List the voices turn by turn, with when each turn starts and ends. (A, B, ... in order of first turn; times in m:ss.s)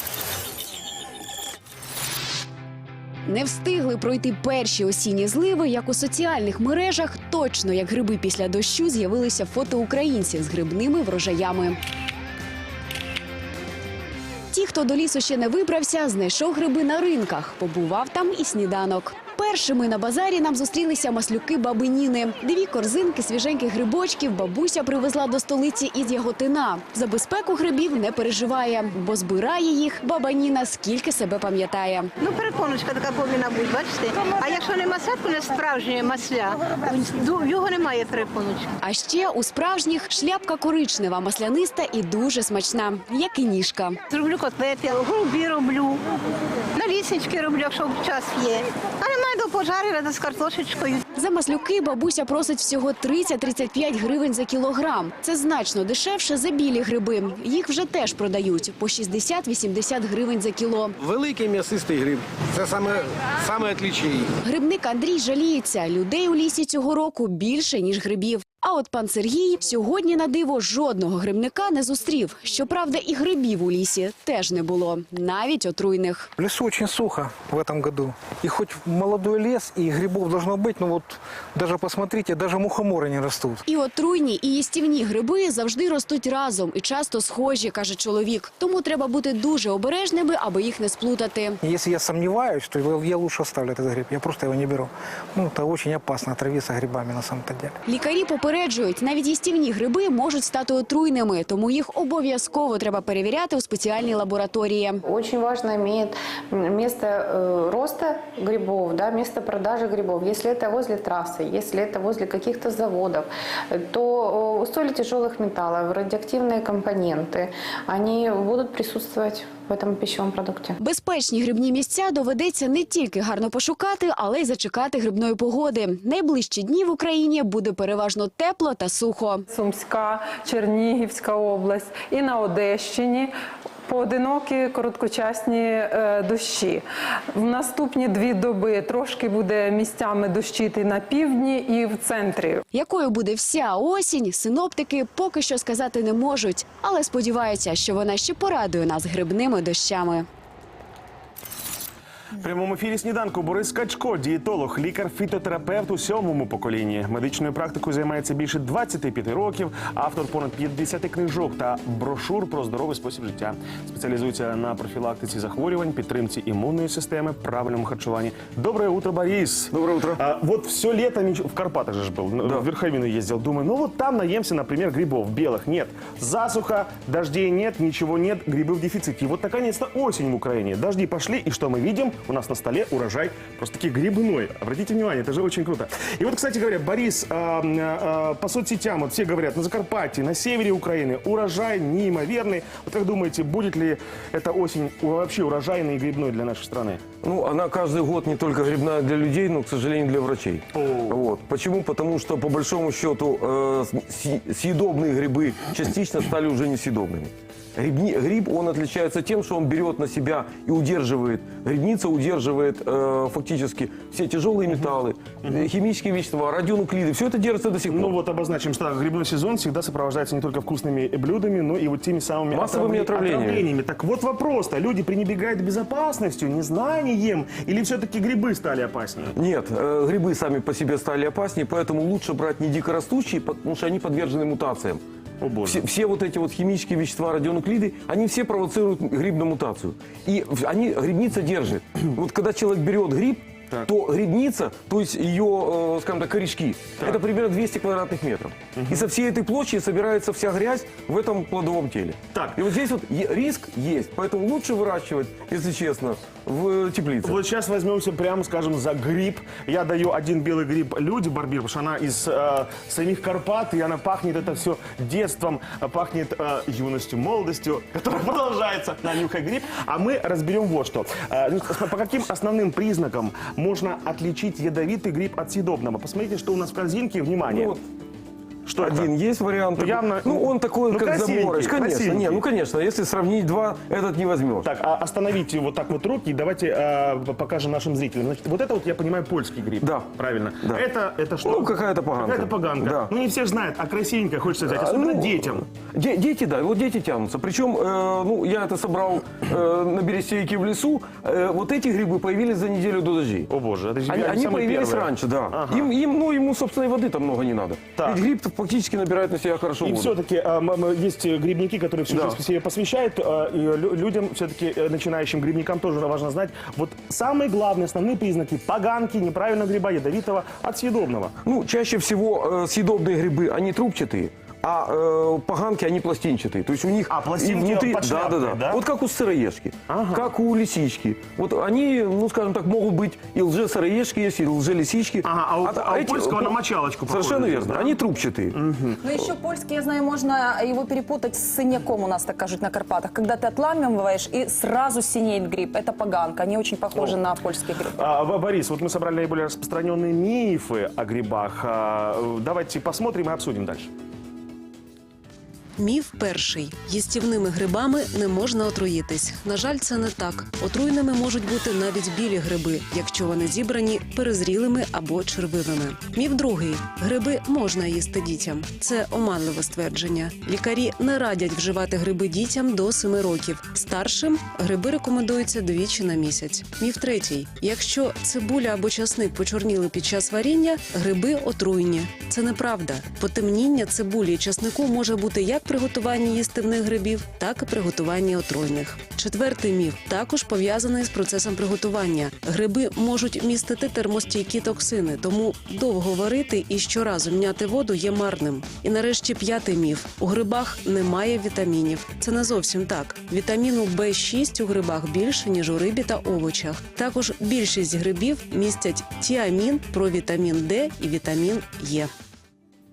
0:03.3-0:11.8 A
0:14.5-0:32.1 A
0:32.2-0:38.7 B
0:38.8-0:44.0 A
0:44.1-0:46.0 B
0:46.7-0:51.0 B
0:51.2-1:01.0 A
1:01.0-1:04.3 C
1:04.4-1:16.3 A
1:16.4-1:23.6 D
1:23.7-1:31.6 A
1:31.6-1:37.7 D
1:37.8-1:45.0 A
1:45.0-2:00.8 E
2:00.8-2:09.4 A
2:09.5-2:13.3 F
2:13.9-2:16.8 F
2:17.3-2:22.6 F
2:22.7-2:30.2 A
2:32.4-3:17.0 G
2:49.7-2:50.2 H
3:17.2-3:38.1 H
3:20.7-3:21.2 G
3:37.9-3:49.3 G
3:42.5-3:43.7 H
3:49.3-3:55.0 H
3:55.4-3:55.8 G
3:55.6-4:17.4 H
4:08.7-4:09.1 G
4:12.3-4:12.6 G
4:17.2-4:37.8 G
4:37.4-4:37.8 H
4:38.6-4:39.1 G
4:38.8-4:44.7 H
4:39.8-4:42.4 G
4:44.6-4:55.6 G
4:49.8-4:50.8 H
4:51.4-4:53.1 H
4:54.6-5:03.5 H
5:03.5-5:05.9 G
5:04.1-5:10.2 H
5:08.0-5:08.2 G
5:09.8-5:21.4 G
5:12.1-5:12.4 H
5:21.4-5:36.6 H
5:27.1-5:28.8 G
5:29.9-5:30.3 G
5:35.2-5:38.0 G
5:37.1-5:38.6 H
5:38.5-5:39.0 G
5:39.0-5:48.0 I
5:47.9-5:53.9 G
5:55.8-6:52.1 J